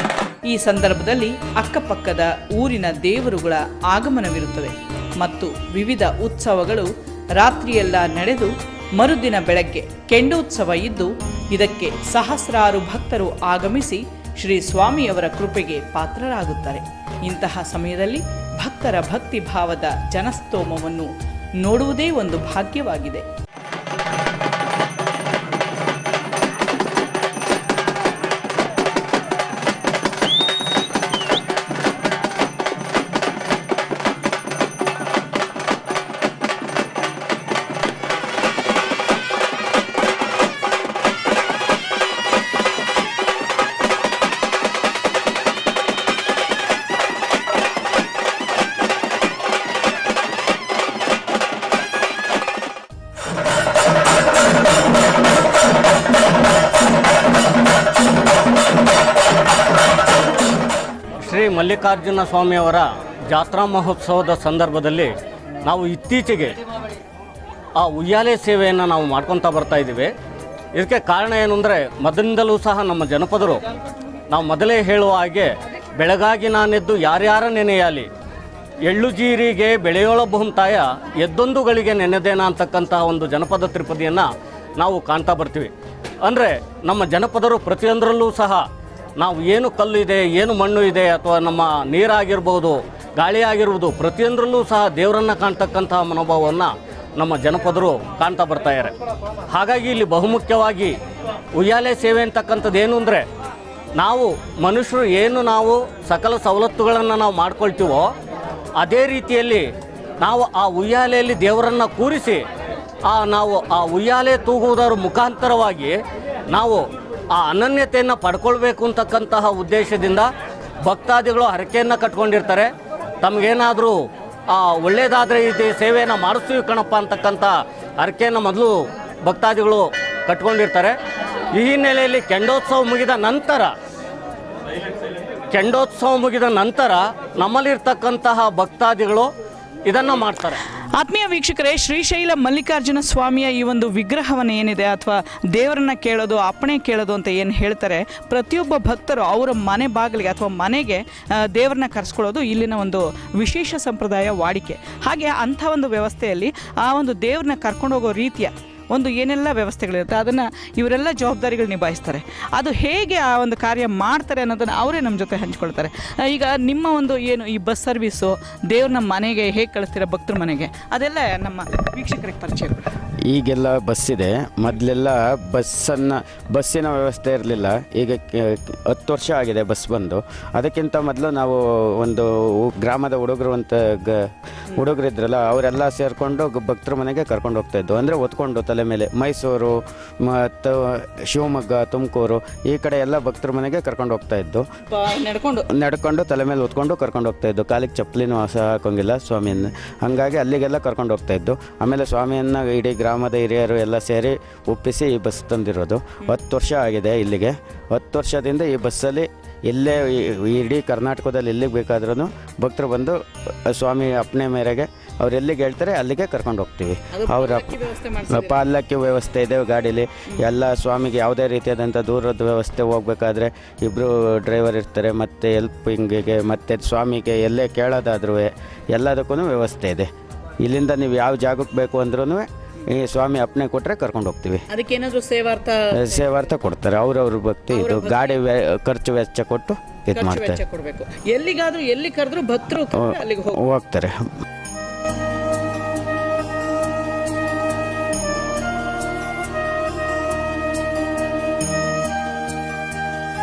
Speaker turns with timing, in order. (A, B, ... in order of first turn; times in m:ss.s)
0:00.5-0:21.1 A
0:21.6-0:23.2 A
1:01.2-1:05.1 B
1:05.6-1:06.6 B
1:07.8-1:10.1 B
1:10.7-1:13.6 B
1:14.3-1:18.1 B
1:18.8-1:24.3 B
1:24.8-1:25.7 B
1:26.2-1:28.6 B
1:29.2-1:38.9 B
1:39.5-1:41.0 B
1:41.6-1:43.2 B
1:44.0-1:48.1 B
1:48.8-1:49.7 B
1:50.2-1:52.4 B
1:53.1-1:55.9 B
1:56.5-1:56.8 B
1:57.3-2:00.3 B
2:00.8-2:02.7 B
2:03.2-2:04.0 B
2:04.5-2:08.7 B
2:09.2-2:10.9 B
2:11.6-2:13.7 B
2:15.5-2:19.3 B
2:19.9-2:20.6 B
2:21.0-2:52.9 A
2:53.3-3:14.6 C
3:14.9-3:15.6 A
3:15.7-3:50.1 C
3:50.6-3:54.6 C
3:54.9-3:55.6 A
3:55.9-4:00.6 C
4:00.8-4:02.3 A
4:02.8-4:04.2 C